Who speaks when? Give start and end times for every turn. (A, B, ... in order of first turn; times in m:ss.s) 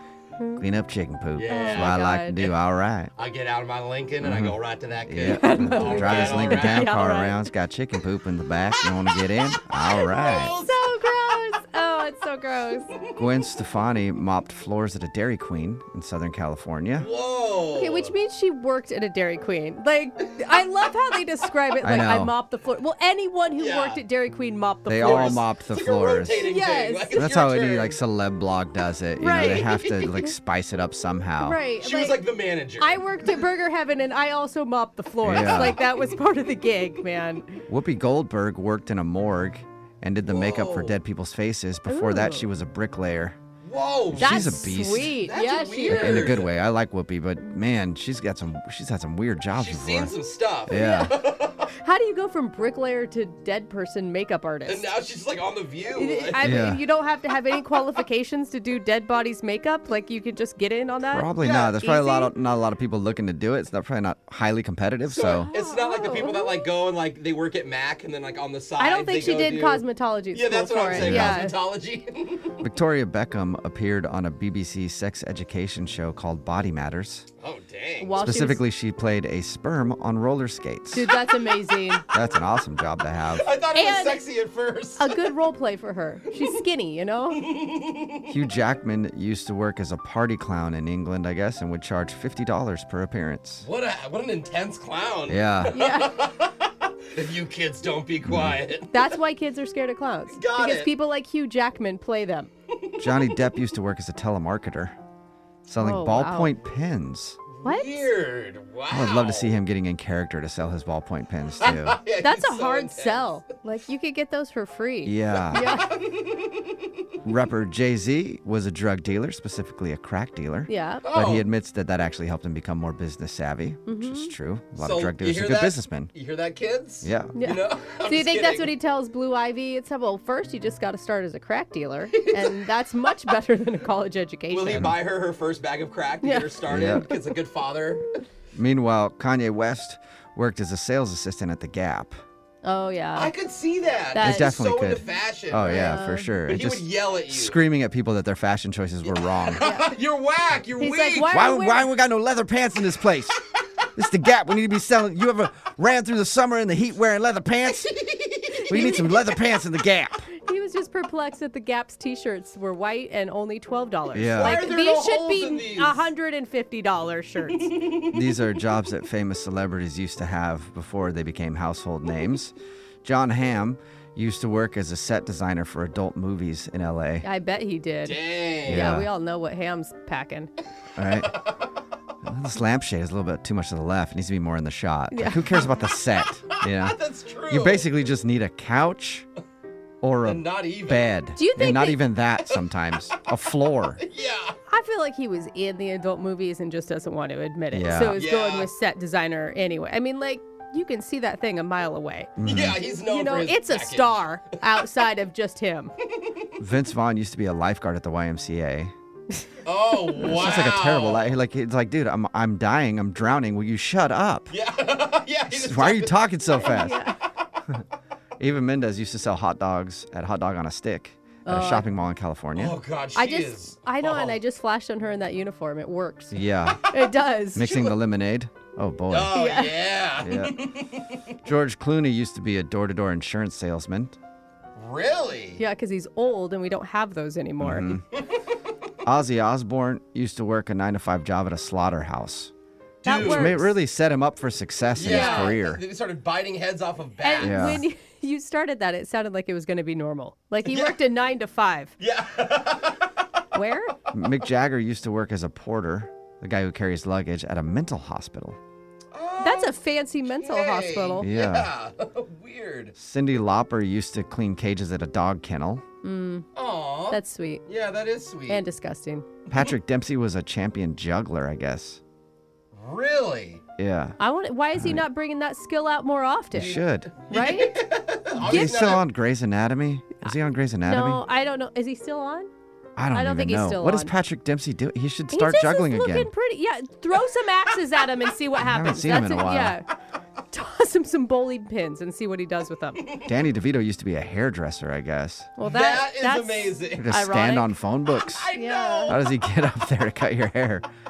0:00.6-0:03.1 A
0:01.3-0:02.6 B
0:01.4-0:02.4 C
0:03.1-0:06.9 B
0:04.2-0:10.5 A
0:05.2-0:07.5 C
0:08.8-0:10.8 B
0:10.7-0:12.9 C
0:12.9-0:13.2 B
0:13.2-0:17.1 A
0:17.0-0:18.1 B
0:17.7-0:25.5 C
0:21.8-0:22.3 A
0:23.6-0:24.0 B
0:24.9-0:26.5 A
0:25.0-0:28.0 B
0:26.3-0:27.3 C
0:27.1-0:31.6 A
0:29.2-0:29.9 C
0:29.8-0:30.2 B
0:31.4-0:32.3 C
0:31.8-0:33.4 B
0:32.8-0:37.6 C
0:35.2-0:35.8 A
0:37.7-0:43.4 A
0:40.2-0:41.0 B
0:41.9-0:42.5 C
0:43.6-0:44.5 B
0:44.1-0:45.2 A
0:44.2-0:46.3 C
0:45.2-0:46.5 B
0:45.9-0:50.2 A
0:49.5-0:51.7 B
0:50.7-0:51.1 A
0:50.7-0:51.0 C
0:51.8-0:54.9 C
0:54.6-0:56.6 B
0:55.9-1:02.3 C
0:56.4-0:56.8 A
1:01.0-1:05.5 A
1:01.4-1:01.7 B
1:05.1-1:12.6 B
1:05.4-1:06.7 C
1:08.8-1:11.6 C
1:10.9-1:11.4 A
1:12.6-1:17.3 A
1:17.4-1:18.2 B
1:18.0-1:18.6 C
1:18.2-1:21.1 A
1:20.9-1:22.0 C
1:21.1-1:22.0 B
1:22.1-1:23.5 A
1:23.2-1:25.3 B
1:23.7-1:24.2 C
1:25.0-1:27.5 C
1:27.3-1:28.3 B
1:28.3-1:33.7 A
1:33.6-1:39.2 B
1:35.3-1:35.8 A
1:35.7-1:36.3 C
1:38.2-1:38.6 A
1:38.9-1:42.5 C
1:40.3-1:40.9 B
1:42.7-1:43.4 B
1:43.0-1:45.0 A
1:45.6-1:47.4 A
1:45.8-1:46.6 C
1:47.5-1:49.6 B
1:47.6-1:48.1 C
1:48.9-1:52.0 A
1:51.6-1:53.4 B
1:51.6-1:56.0 C
1:55.0-1:55.7 A
1:55.5-1:56.8 B
1:57.2-2:06.1 A
2:00.7-2:01.0 C
2:01.0-2:01.5 B
2:03.8-2:04.3 C
2:04.8-2:08.7 B
2:07.0-2:07.4 A
2:07.3-2:14.9 C
2:12.1-2:13.1 B
2:14.5-2:18.2 B
2:16.2-2:17.1 C
2:16.7-2:17.1 A
2:18.5-2:22.2 A
2:22.6-2:23.3 C
2:23.1-2:27.6 B
2:24.1-2:24.6 C
2:24.2-2:29.6 A
2:25.6-2:26.4 C
2:29.0-2:31.4 B
2:29.6-2:30.0 C
2:30.8-2:31.8 C
2:31.3-2:33.4 A
2:33.9-2:38.0 A
2:37.7-2:39.1 B
2:38.7-2:40.3 A
2:38.7-2:39.3 C
2:40.4-2:47.7 C
2:44.1-2:44.6 A
2:44.4-2:46.1 B
2:47.5-2:48.6 B
2:48.0-2:57.3 A
2:57.2-3:00.5 C
2:58.0-2:59.0 B
2:58.7-2:59.1 A
3:01.0-3:01.4 A
3:01.2-3:01.5 B
3:02.2-3:07.0 A
3:05.1-3:05.8 C
3:06.5-3:07.9 B
3:07.5-3:09.3 A
3:10.0-3:14.0 A
3:10.2-3:11.1 B
3:11.3-3:12.0 C
3:14.0-3:14.6 B
3:14.7-3:25.9 C
3:17.7-3:18.2 A
3:18.1-3:18.7 B
3:22.4-3:22.8 A
3:22.4-3:24.9 B
3:26.0-3:26.5 B
3:26.6-3:28.9 A
3:29.6-3:31.4 B
3:30.2-3:34.5 A
3:34.5-3:36.2 B
3:35.5-3:37.0 A
3:36.6-3:37.2 C
3:38.4-3:42.7 A
3:41.4-3:41.9 C
3:42.5-3:44.4 B
3:43.1-3:47.7 C
3:46.3-3:46.8 A
3:47.5-3:49.4 A
3:47.6-3:47.9 B
3:49.1-3:51.2 B
3:49.3-3:50.0 C
3:50.2-3:50.7 A
3:51.4-3:54.2 A
3:54.8-3:55.6 B
3:55.6-3:57.9 C
3:57.6-3:58.0 A
3:59.0-4:02.5 A
4:03.0-4:03.7 C
4:03.0-4:03.7 B
4:03.1-4:05.8 A
4:04.9-4:07.8 B
4:05.0-4:05.6 C
4:07.2-4:11.9 C
4:07.4-4:07.8 A
4:10.6-4:11.0 B
4:12.0-4:13.2 B
4:13.5-4:13.9 C
4:14.1-4:18.6 A
4:19.1-4:22.9 B
4:19.4-4:21.3 C
4:21.2-4:21.7 A
4:22.9-4:25.8 A
4:26.0-4:26.5 C
4:26.5-4:28.6 B
4:27.1-4:27.6 C
4:28.5-4:29.2 C
4:29.5-4:32.0 A
4:32.7-4:33.6 B
4:33.8-4:34.2 A
4:34.2-4:37.8 C
4:34.7-4:35.0 A
4:36.5-4:37.1 A
4:36.6-4:39.0 B
4:38.4-4:39.0 C
4:38.4-4:41.2 A
4:40.2-4:42.5 C
4:43.0-4:46.3 A
4:43.1-4:44.1 C
4:45.3-4:49.9 C
4:47.7-4:48.1 B
4:48.6-4:49.8 A
4:50.5-4:53.0 C
4:53.0-4:53.3 B
4:53.2-4:55.5 A
4:55.6-4:57.8 C
4:55.6-4:57.1 B
4:57.0-4:58.5 A
4:58.1-4:59.3 B
4:58.5-4:59.3 C
4:59.1-5:00.8 A